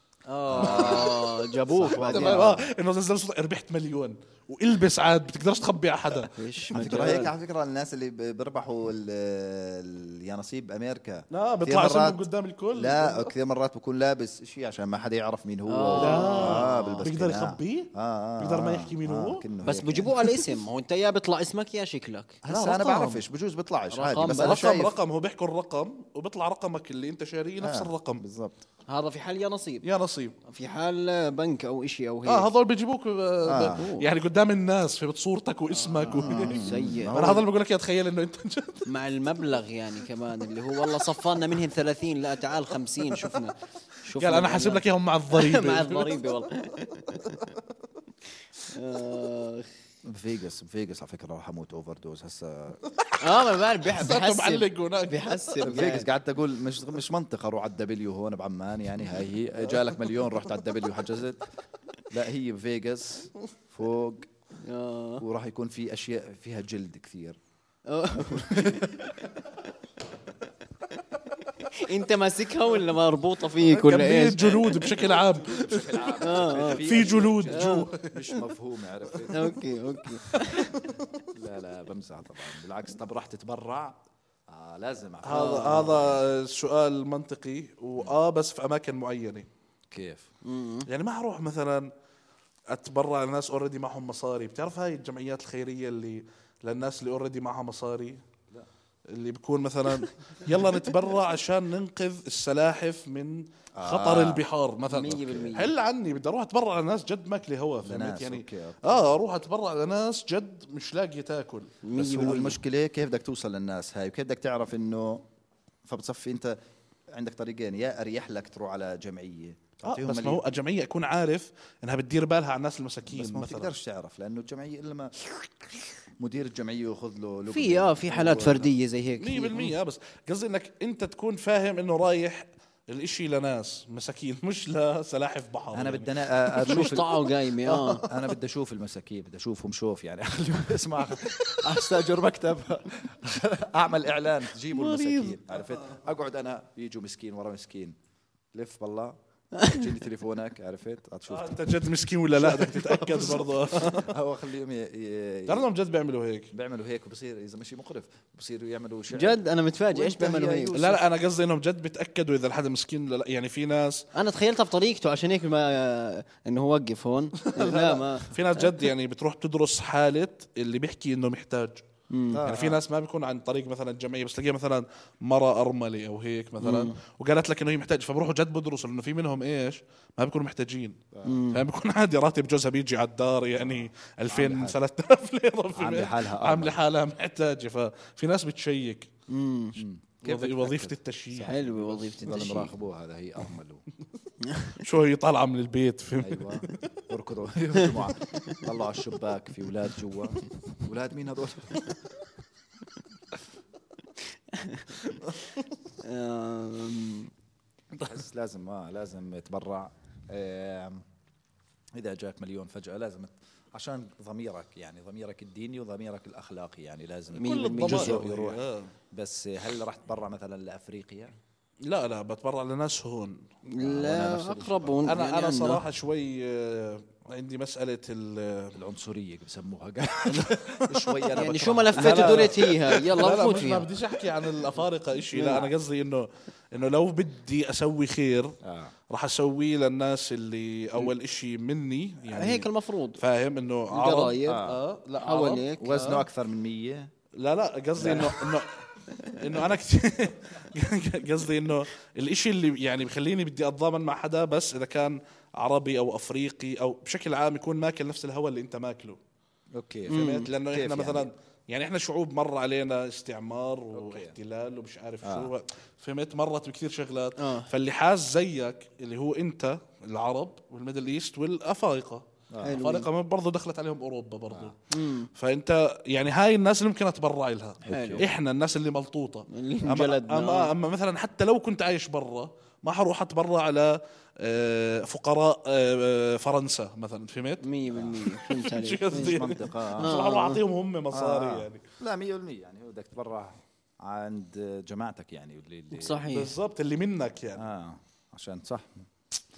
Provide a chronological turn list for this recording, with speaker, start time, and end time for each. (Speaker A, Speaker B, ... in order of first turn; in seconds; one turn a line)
Speaker A: 0.3-2.6
Speaker B: 0.5-2.7
Speaker C: 0.6-1.3
Speaker C: 2.0-6.3
Speaker A: 6.2-7.3
Speaker B: 6.7-12.2
Speaker C: 11.3-13.3
Speaker B: 12.8-20.2
Speaker A: 15.7-17.0
Speaker C: 16.0-19.4
Speaker A: 19.6-22.4
Speaker B: 22.4-25.0
Speaker C: 22.5-23.2
Speaker A: 23.9-24.6
Speaker C: 24.3-28.2
Speaker B: 27.6-28.6
Speaker A: 28.9-29.9
Speaker C: 29.8-30.4
Speaker A: 30.5-32.5
Speaker C: 32.3-38.9
Speaker B: 33.5-33.9
Speaker A: 33.5-34.1
Speaker A: 35.7-37.4
Speaker B: 36.1-37.5
Speaker A: 38.9-47.5
Speaker C: 43.1-43.4
Speaker C: 44.2-46.2
Speaker A: 48.7-49.7
Speaker B: 50.0-52.8
Speaker A: 53.2-56.1
Speaker C: 53.9-55.6
Speaker B: 55.6-61.5
Speaker B: 62.1-64.3
Speaker A: 64.6-65.2
Speaker B: 65.2-67.4
Speaker A: 67.9-69.4
Speaker B: 68.2-69.2
Speaker A: 70.9-74.9
Speaker C: 73.6-78.3
Speaker B: 75.1-79.6
Speaker A: 76.2-77.9
Speaker A: 79.3-80.9
Speaker C: 80.3-81.2
Speaker B: 81.3-84.0
Speaker B: 84.5-86.2
Speaker C: 85.2-89.5
Speaker A: 85.3-85.9
Speaker B: 89.9-90.3
Speaker A: 90.4-90.9
Speaker C: 90.9-91.9
Speaker C: 92.7-98.2
Speaker C: 99.1-111.8
Speaker B: 103.8-104.4
Speaker A: 104.9-105.7
Speaker B: 107.8-109.1
Speaker A: 111.8-112.6
Speaker B: 111.9-115.3
Speaker B: 115.8-116.6
Speaker B: 117.1-120.4
Speaker C: 119.8-123.7
Speaker B: 123.1-128.7
Speaker A: 127.5-129.8
Speaker C: 129.2-137.0
Speaker B: 135.7-137.1
Speaker A: 136.6-138.1
Speaker C: 137.7-138.2
Speaker B: 138.0-148.0
Speaker A: 144.7-145.4
Speaker B: 148.5-155.7
Speaker A: 149.6-149.8
Speaker C: 151.3-154.1
Speaker C: 155.5-156.5
Speaker B: 156.5-161.0
Speaker A: 159.1-161.0
Speaker C: 160.7-164.1
Speaker A: 164.1-168.9
Speaker C: 167.4-171.8
Speaker A: 172.1-172.4
Speaker B: 172.3-172.8
Speaker C: 172.4-189.1
Speaker A: 176.6-177.0
Speaker B: 181.1-181.4
Speaker A: 181.2-181.6
Speaker B: 183.6-184.8
Speaker B: 185.8-186.8
Speaker A: 189.3-189.8
Speaker B: 189.8-191.5
Speaker C: 190.2-192.4
Speaker A: 191.3-192.7
Speaker B: 192.2-193.8
Speaker A: 194.4-194.8
Speaker C: 194.8-196.8
Speaker B: 196.2-202.0
Speaker A: 204.5-205.0
Speaker A: 206.0-207.3
Speaker B: 208.0-211.0
Speaker B: 211.9-221.3
Speaker A: 217.4-218.2
Speaker C: 217.4-218.9
Speaker C: 221.9-223.4
Speaker A: 223.7-225.8
Speaker B: 223.8-225.0
Speaker C: 225.0-228.8
Speaker B: 228.8-232.6
Speaker C: 230.3-231.3
Speaker A: 231.3-233.9
Speaker C: 232.0-238.6
Speaker A: 235.3-235.7
Speaker B: 238.6-238.9
Speaker C: 239.1-246.2
Speaker A: 242.3-243.2
Speaker A: 243.9-244.6
Speaker B: 244.4-244.8
Speaker A: 245.2-246.1
Speaker B: 245.8-247.1
Speaker C: 247.4-259.2
Speaker B: 248.0-248.4
Speaker A: 249.1-249.4
Speaker B: 259.8-261.3
Speaker A: 260.1-260.5
Speaker C: 260.1-274.8
Speaker B: 263.9-264.4
Speaker B: 265.2-265.5
Speaker A: 267.4-267.7
Speaker B: 272.5-272.8
Speaker A: 272.6-273.1
Speaker A: 274.9-275.3
Speaker C: 275.3-287.7
Speaker B: 277.8-278.3
Speaker A: 277.9-278.3
Speaker A: 279.5-280.7
Speaker A: 287.6-289.5
Speaker B: 287.9-288.2
Speaker C: 288.2-291.8
Speaker B: 289.1-290.2
Speaker A: 290.0-290.6
Speaker B: 291.1-296.2
Speaker A: 295.9-296.5
Speaker C: 296.3-297.6
Speaker B: 297.6-299.1